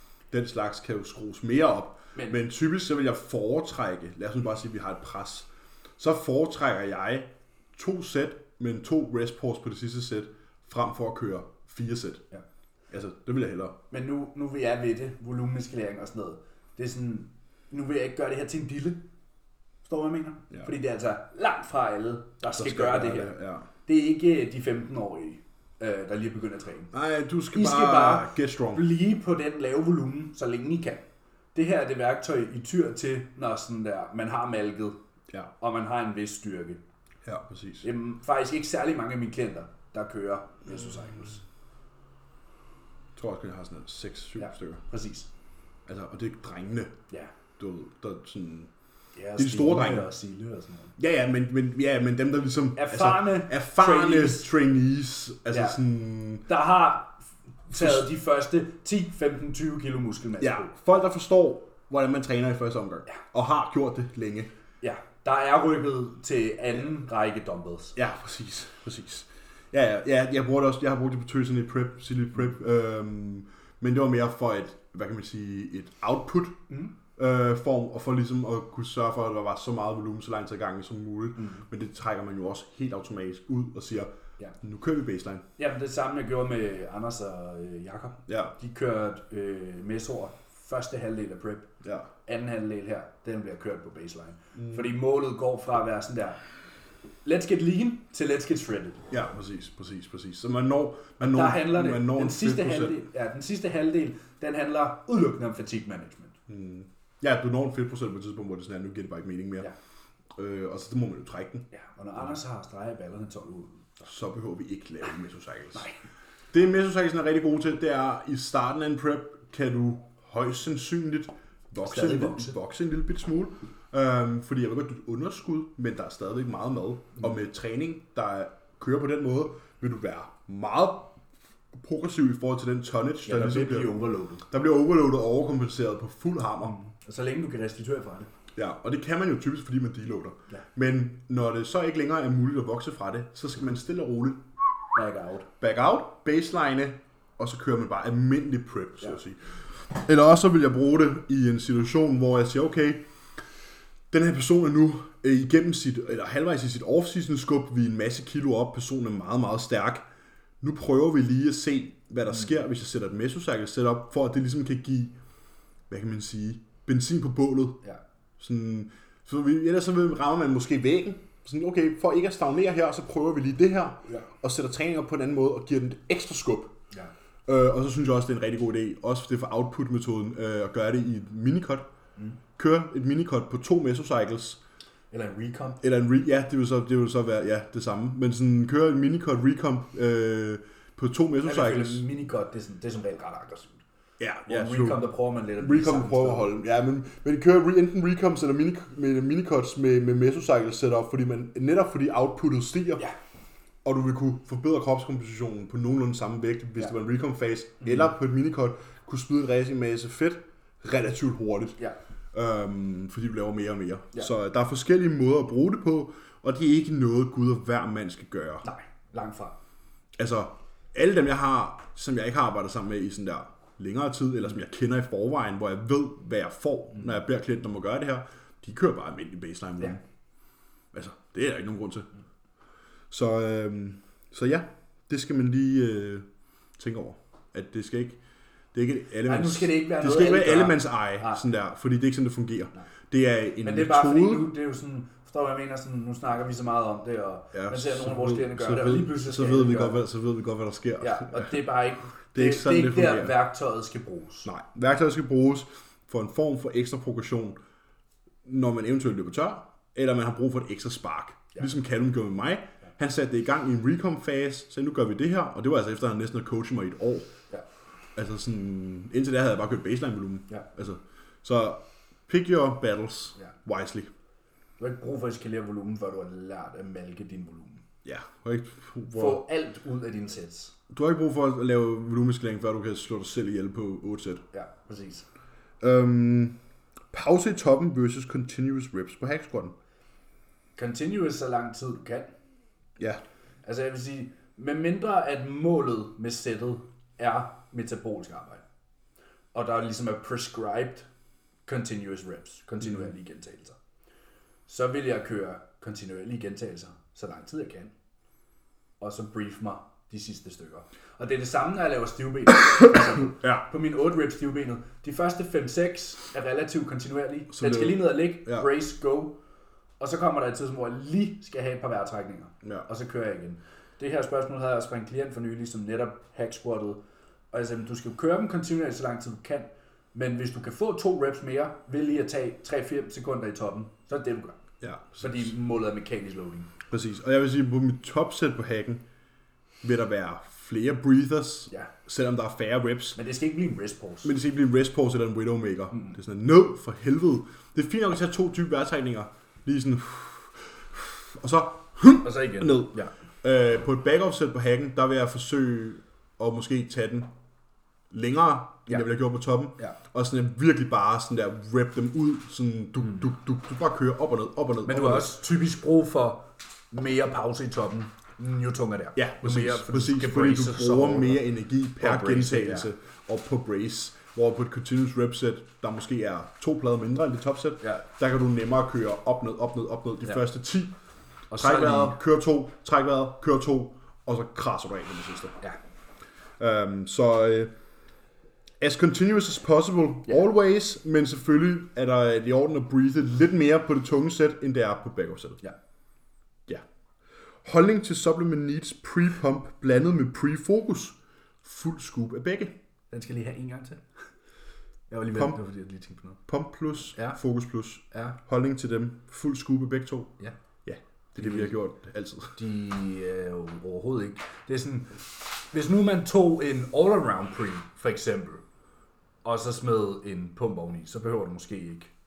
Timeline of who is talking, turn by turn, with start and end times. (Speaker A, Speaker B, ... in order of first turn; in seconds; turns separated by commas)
Speaker A: 0.3-12.2, Speaker A: 12.9-13.8, Speaker B: 13.9-19.0, Speaker B: 19.8-23.3, Speaker A: 22.5-23.7, Speaker B: 23.9-26.9, Speaker A: 26.9-28.8, Speaker B: 27.5-31.0, Speaker B: 31.5-35.0, Speaker B: 35.6-36.8, Speaker A: 37.2-37.9, Speaker B: 37.8-41.4, Speaker A: 43.1-44.8, Speaker B: 44.4-45.3, Speaker A: 45.9-46.9, Speaker A: 47.6-48.7, Speaker B: 49.1-50.9, Speaker A: 49.4-50.1, Speaker A: 51.0-56.5, Speaker B: 52.8-54.5, Speaker B: 55.5-55.8, Speaker B: 56.5-57.2, Speaker B: 57.7-60.8, Speaker A: 57.7-58.1, Speaker A: 60.4-64.5, Speaker B: 64.8-67.9, Speaker A: 68.0-76.6, Speaker A: 77.2-85.4, Speaker B: 81.4-81.6, Speaker B: 85.6-91.7, Speaker A: 88.3-88.5, Speaker A: 91.8-92.1, Speaker B: 92.2-96.4, Speaker A: 94.5-94.9, Speaker B: 97.2-99.0, Speaker A: 99.1-103.0, Speaker B: 101.2-106.3, Speaker A: 106.5-109.7, Speaker A: 110.3-111.7, Speaker B: 111.7-114.0, Speaker A: 114.0-115.8, Speaker A: 116.5-131.2, Speaker B: 121.8-122.5, Speaker A: 131.8-134.0, Speaker B: 133.2-134.4, Speaker A: 134.5-136.8, Speaker B: 136.7-138.3, Speaker A: 138.5-144.4, Speaker B: 144.9-145.5, Speaker A: 145.6-153.0, Speaker A: 154.1-160.1, Speaker A: 160.6-165.1, Speaker A: 165.9-167.8, Speaker A: 168.4-176.7, Speaker A: 177.5-181.9, Speaker A: 182.6-184.6, Speaker B: 185.1-185.8, Speaker A: 185.8-192.0, Speaker B: 191.4-193.8, Speaker A: 194.2-195.0, Speaker B: 194.5-196.5, Speaker A: 195.6-203.0, Speaker A: 203.8-211.8, Speaker A: 212.3-218.7, Speaker B: 218.6-219.6, Speaker A: 220.2-230.0, Speaker A: 230.9-232.1, Speaker A: 233.1-236.2, Speaker A: 236.8-238.2, Speaker A: 238.7-244.5, Speaker B: 239.2-241.4, Speaker B: 243.6-250.0, Speaker A: 247.5-251.6, Speaker B: 251.0-254.5, Speaker A: 252.3-253.4, Speaker A: 254.4-257.6, Speaker A: 258.4-267.3, Speaker A: 268.1-274.1, Speaker B: 274.8-277.8, Speaker A: 278.0-279.4, Speaker B: 279.1-280.7, Speaker A: 280.9-284.4, Speaker B: 284.5-285.3, Speaker A: 285.8-286.6, Speaker A: 287.1-289.7, Speaker B: 290.8-292.3, Speaker B: 293.6-298.6, Speaker B: 299.5-301.1, Speaker B: 301.6-303.8, Speaker B: 304.7-307.9, Speaker B: 309.0-319.4, Speaker A: 313.4-313.6, Speaker A: 317.5-318.7, Speaker B: 320.0-327.0, Speaker B: 327.5-334.6, Speaker A: 334.8-335.5, Speaker B: 335.2-336.7, Speaker A: 336.9-339.0, Speaker A: 339.8-343.2, Speaker B: 343.1-344.3, Speaker A: 344.2-357.3, Speaker B: 352.2-353.1, Speaker A: 358.1-365.3, Speaker B: 364.8-372.9, Speaker A: 369.1-380.9, Speaker B: 381.5-382.2, Speaker A: 381.6-385.6, Speaker A: 386.6-387.7, Speaker A: 388.8-395.6, Speaker A: 397.6-402.7, Speaker B: 403.1-404.0, Speaker B: 405.1-406.4, Speaker A: 405.3-405.6, Speaker A: 406.5-412.6, Speaker B: 408.1-408.4, Speaker B: 411.4-411.7, Speaker B: 412.6-418.6, Speaker B: 419.4-422.1